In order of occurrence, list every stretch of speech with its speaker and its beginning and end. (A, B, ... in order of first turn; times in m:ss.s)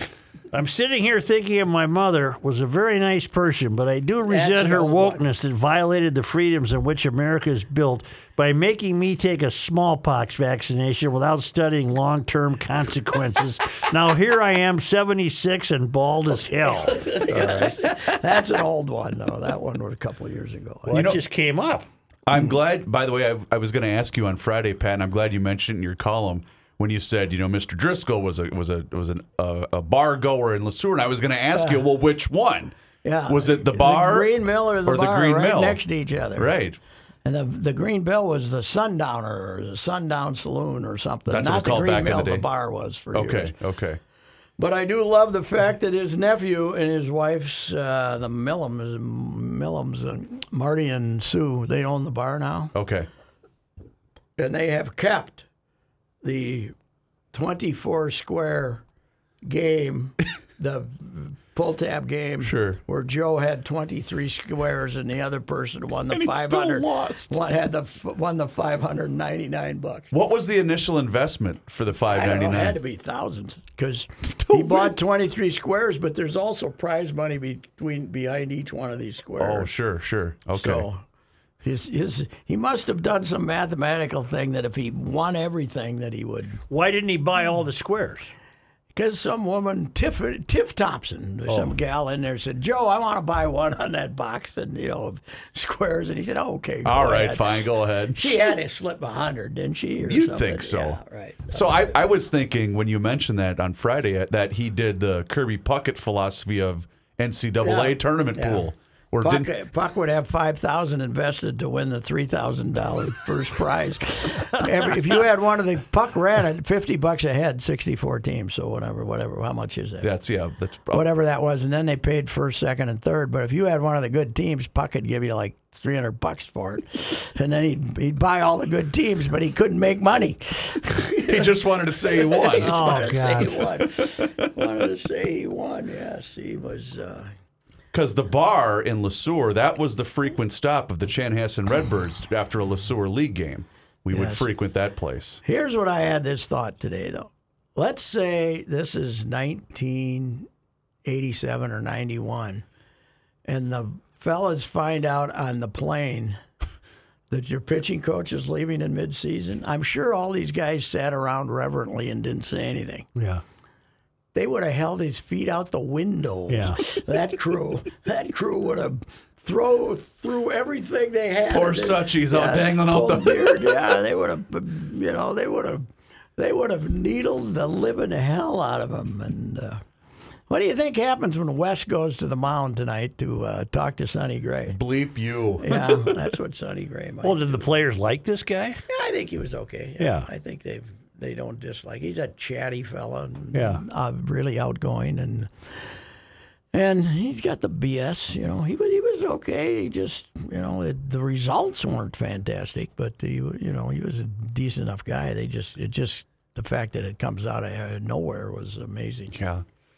0:00.5-0:17.7 A
0:04.3-0:05.2 B
0:16.6-0:21.0 B
0:17.4-0:17.7 C
0:20.9-0:21.9 A
0:20.9-0:21.2 C
0:22.2-0:32.7 C
0:31.5-0:31.8 B
0:33.0-0:36.5 B
0:33.3-0:35.8 C
0:36.4-0:36.8 C
0:37.2-0:43.5 B
0:41.3-0:42.4 C
0:43.1-0:44.0 C
0:44.6-0:52.7 B
0:52.7-0:53.1 C
0:54.4-0:55.4 B
0:56.2-0:56.7 B
0:57.3-0:58.8 B
0:59.4-1:10.1 B
1:02.4-1:02.8 C
1:06.1-1:07.4 C
1:10.1-1:12.8 C
1:12.1-1:19.7 B
1:14.3-1:14.9 C
1:19.4-1:20.9 C
1:20.5-1:21.0 B
1:21.6-1:26.6 B
1:26.7-1:28.3 A
1:28.9-1:42.0 B
1:31.5-1:31.7 A
1:36.8-1:38.4 C
1:40.0-1:41.0 C
1:41.5-1:49.5 C
1:47.6-1:48.7 B
1:49.2-2:00.1 B
2:00.0-2:01.0 C
2:00.9-2:17.3 B
2:11.3-2:12.9 C
2:12.6-2:13.7 A
2:13.8-2:14.5 C
2:17.9-2:25.4 C
2:24.1-2:24.5 B
2:25.4-2:30.5 B
2:31.0-2:32.6 B
2:33.5-2:36.4 B
2:37.3-2:43.1 B
2:43.2-2:43.4 A
2:44.3-2:55.8 B
2:46.5-2:46.8 A
2:51.5-2:53.8 C
2:56.4-2:59.8 B
3:00.5-3:04.8 B
3:04.7-3:06.2 C
3:05.6-3:07.7 B
3:07.2-3:08.8 A
3:08.9-3:15.5 B
3:10.0-3:10.3 A
3:13.5-3:13.8 A
3:16.7-3:29.3 B
3:29.3-3:29.6 C